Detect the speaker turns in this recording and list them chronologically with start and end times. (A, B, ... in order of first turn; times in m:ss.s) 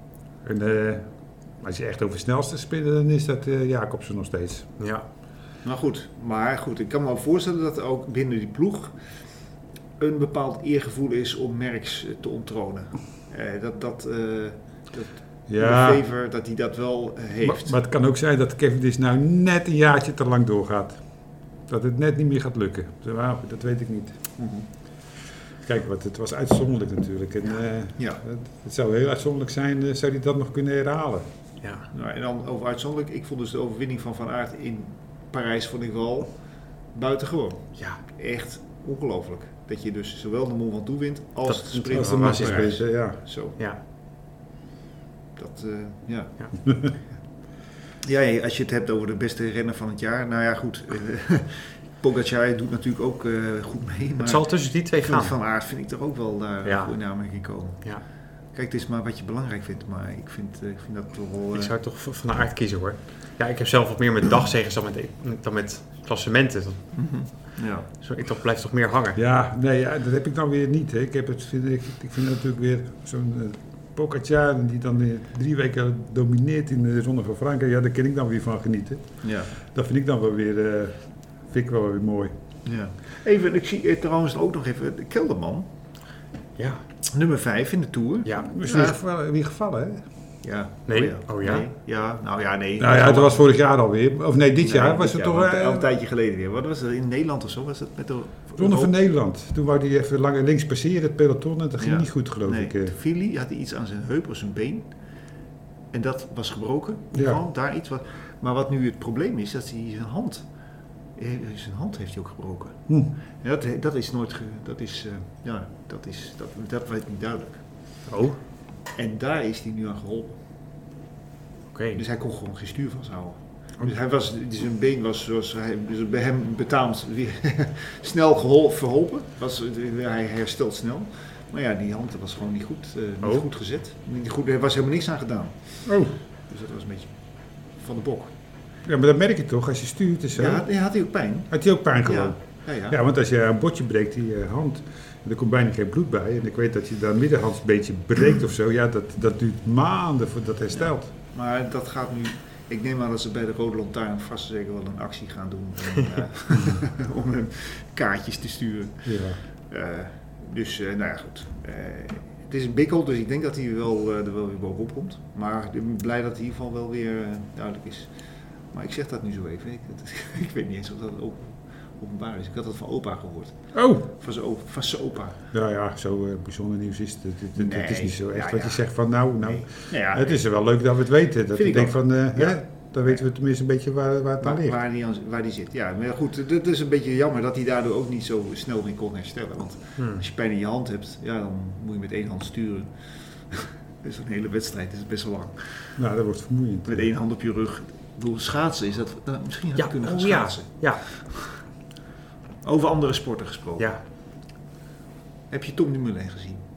0:00.4-0:04.7 A
0:04.8-0:05.0 B
0:05.6-0:09.0 C
0:10.0-0:17.8 C
0:15.5-0:16.0 A
0:17.4-0:24.3 A
0:24.4-0:24.7 C
0:25.6-0:31.3 A
0:31.9-0:43.6 C
0:41.4-0:43.0 B
0:41.9-0:43.2 A
0:45.4-0:46.3 C
0:48.0-1:01.7 C
0:54.2-0:55.3 B
0:56.6-0:57.0 B
1:01.5-1:09.2 B
1:06.9-1:07.9 C
1:09.1-1:22.3 A
1:19.2-1:19.5 C
1:22.6-1:25.7 C
1:26.6-1:26.8 B
1:27.1-1:29.0 C
1:28.2-1:28.5 B
1:28.5-1:30.0 A
1:30.4-1:33.5 C
1:30.9-1:31.7 B
1:32.8-1:35.9 A
1:34.6-1:38.9 C
1:38.6-1:42.9 A
1:41.8-1:44.9 C
1:45.9-1:50.5 C
1:47.1-1:47.4 A
1:51.1-1:57.7 C
1:58.1-1:58.4 B
1:58.9-2:00.4 C
2:01.7-2:02.0 B
2:01.9-2:17.2 C
2:15.8-2:16.1 A
2:17.7-2:18.3 C
2:18.8-2:20.6 A
2:20.4-2:23.0 C
2:21.5-2:31.1 A
2:30.7-2:55.4 C
2:39.0-2:39.4 A
2:53.7-2:54.0 A
2:55.5-3:04.8 A
2:57.5-2:58.9 C
2:59.4-3:00.4 C
3:01.5-3:03.2 C
3:04.4-3:16.0 C
3:10.0-3:10.2 B
3:16.0-3:17.1 A
3:16.8-3:21.6 C
3:19.8-3:21.3 B
3:22.6-3:23.9 C
3:25.5-3:26.6 C